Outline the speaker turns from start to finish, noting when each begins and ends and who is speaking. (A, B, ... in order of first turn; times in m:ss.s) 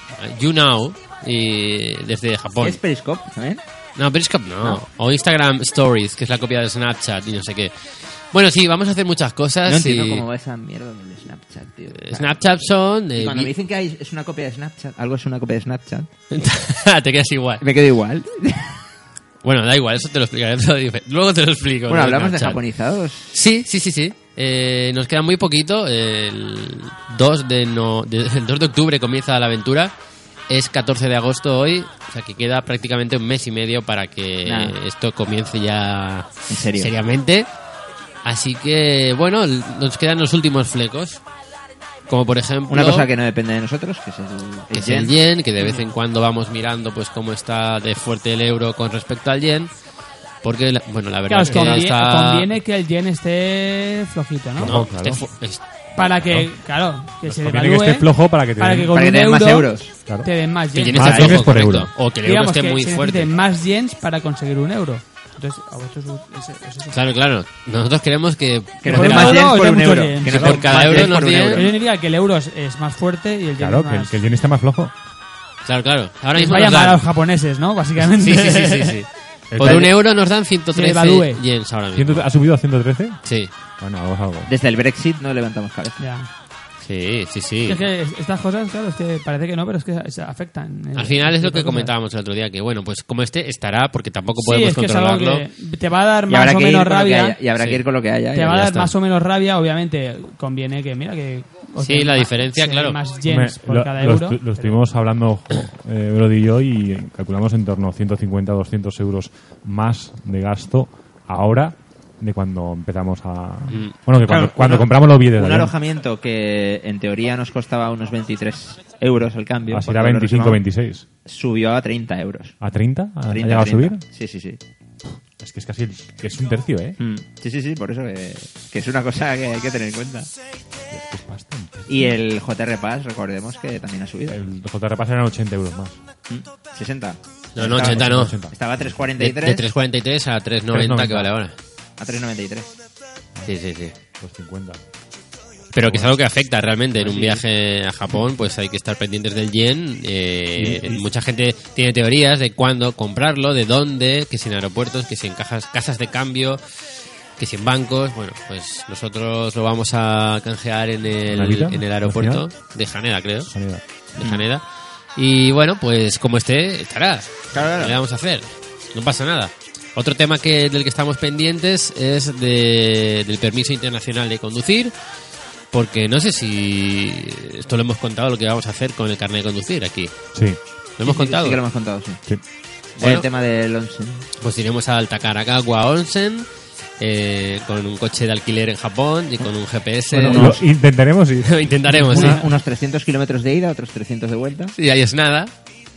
0:00.2-0:02.8 A
0:02.6-0:03.6 B
0:04.0-0:07.7 A
0:08.3-0:10.2 A
0:09.6-0:12.4 B
0:11.9-0:13.5 A
0:13.2-0:16.1 B
0:16.3-0:17.6 A
0:17.6-0:18.8 B
0:19.4-0:22.6 A
0:21.9-0:23.3 B
0:23.3-0:29.9 A
0:30.5-0:37.5 A
0:34.4-0:34.8 B
0:36.5-0:36.9 B
0:38.2-0:41.2 A
0:42.1-0:43.1 A
0:42.7-0:45.2 B
0:44.7-0:49.7 A
0:45.6-0:45.9 C
0:50.4-0:52.5 A
0:51.3-0:54.8 C
0:51.4-0:51.8 D
0:54.6-0:55.3 D
0:54.6-0:55.6 A
0:56.0-1:01.4 C
0:56.2-0:59.0 D
0:58.9-0:59.9 B
1:00.7-1:03.3 A
1:00.9-1:01.9 D
1:01.0-1:01.5 B
1:02.2-1:07.0 C
1:06.9-1:09.5 A
1:08.8-1:11.7 B
1:08.8-1:14.2 C
1:10.3-1:11.7 A
1:10.3-1:11.2 D
1:13.6-1:14.9 D
1:15.6-1:17.0 A
1:16.3-1:19.0 C
1:18.0-1:22.3 A
1:19.5-1:19.9 D
1:19.6-1:19.9 B
1:20.7-1:21.4 C
1:21.9-1:23.2 D
1:23.2-1:23.5 A
1:23.8-1:24.5 D
1:24.5-1:26.0 B
1:26.0-1:26.3 C
1:26.8-1:27.8 A
1:27.7-1:31.9 C
1:31.0-1:35.5 A
1:34.4-1:37.4 C
1:36.3-1:38.6 B
1:37.6-1:37.8 A
1:38.3-1:44.7 C
1:38.4-1:38.9 A
1:41.8-1:43.0 A
1:43.3-1:55.7 D
1:53.7-1:54.0 A
1:54.2-2:00.6 B
1:59.7-2:01.0 D
2:01.2-2:02.6 B
2:02.6-2:04.0 D
2:03.3-2:04.6 B
2:05.4-2:07.0 D
2:07.0-2:10.3 B
2:10.9-2:12.1 D
2:11.9-2:14.4 B
2:14.3-2:16.0 D
2:16.3-2:19.7 B
2:17.6-2:18.4 A
2:17.6-2:19.1 D
2:19.2-2:21.6 A
2:20.7-2:21.3 D
2:22.0-2:22.7 B
2:23.5-2:24.0 A
2:24.1-2:24.8 D
2:25.7-2:36.6 A
2:25.7-2:26.2 D
2:27.0-2:27.4 D
2:30.6-2:31.0 D
2:37.4-2:43.5 A
2:41.3-2:42.5 D
2:43.4-2:43.9 D
2:44.2-2:44.6 A
2:45.2-2:54.9 A
2:47.5-2:48.0 B
2:55.7-3:00.1 A
3:00.3-3:00.6 D
3:01.0-3:01.6 A
3:01.0-3:02.2 B
3:03.0-3:03.3 A
3:03.0-3:04.2 B
3:04.4-3:06.5 A
3:07.0-3:10.6 A
3:10.1-3:10.7 B
3:10.2-3:12.5 D
3:11.4-3:12.4 A
3:11.9-3:12.4 C
3:12.1-3:14.7 B
3:14.7-3:15.5 A